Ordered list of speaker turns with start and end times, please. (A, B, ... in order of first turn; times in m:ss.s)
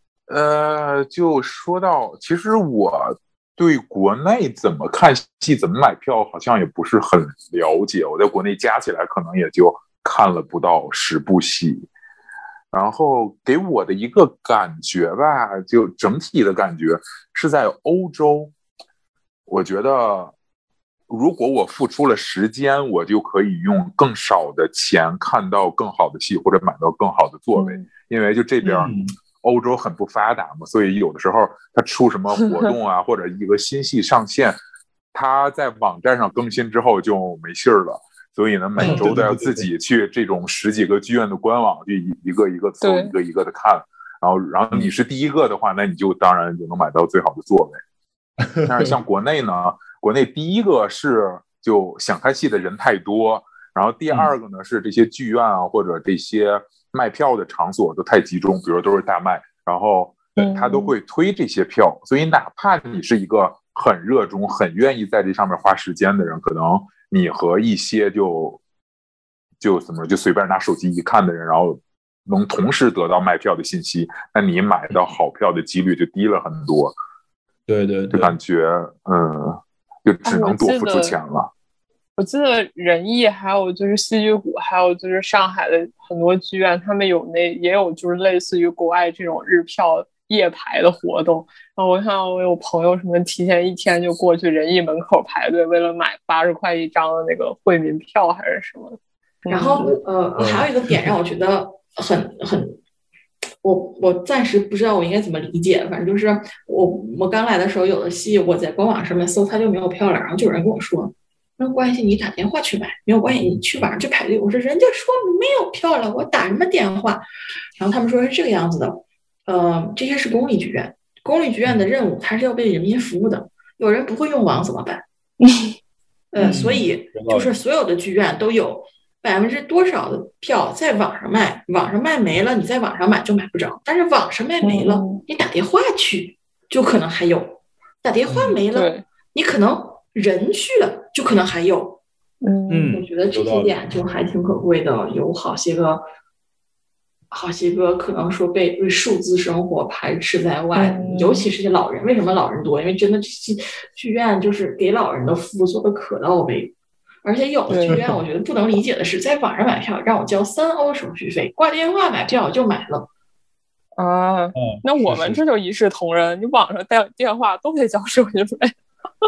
0:00.3-0:11.9 A
0:12.7-0:18.5 A
0:19.5-0:20.3 A
0:21.1-0:34.6 A
0:27.6-0:27.8 B
0:28.6-0:29.1 C
0:35.1-0:47.8 A
0:38.8-0:39.7 C
0:42.8-0:43.1 B
0:48.4-0:48.9 C
0:48.6-1:08.6 A
1:00.4-1:00.9 B
1:09.6-1:17.0 A
1:17.7-1:18.4 C
1:18.1-1:21.5 A
1:20.2-1:21.1 B
1:22.2-1:39.9 B
1:39.5-1:42.8 D
1:39.8-1:41.2 C
1:43.6-1:57.3 D
1:57.8-2:05.0 D
2:05.4-2:05.7 B
2:06.3-2:22.0 D
2:06.4-2:07.5 C
2:14.6-2:15.2 B
2:18.3-2:18.6 C
2:18.7-2:19.0 B
2:22.4-2:23.0 B
2:22.7-2:23.7 C
2:22.9-2:26.0 D
2:27.3-2:43.1 D
2:30.7-2:31.5 B
2:37.7-2:38.0 B
2:37.7-2:38.2 C
2:44.0-2:48.7 B
2:44.6-2:45.4 C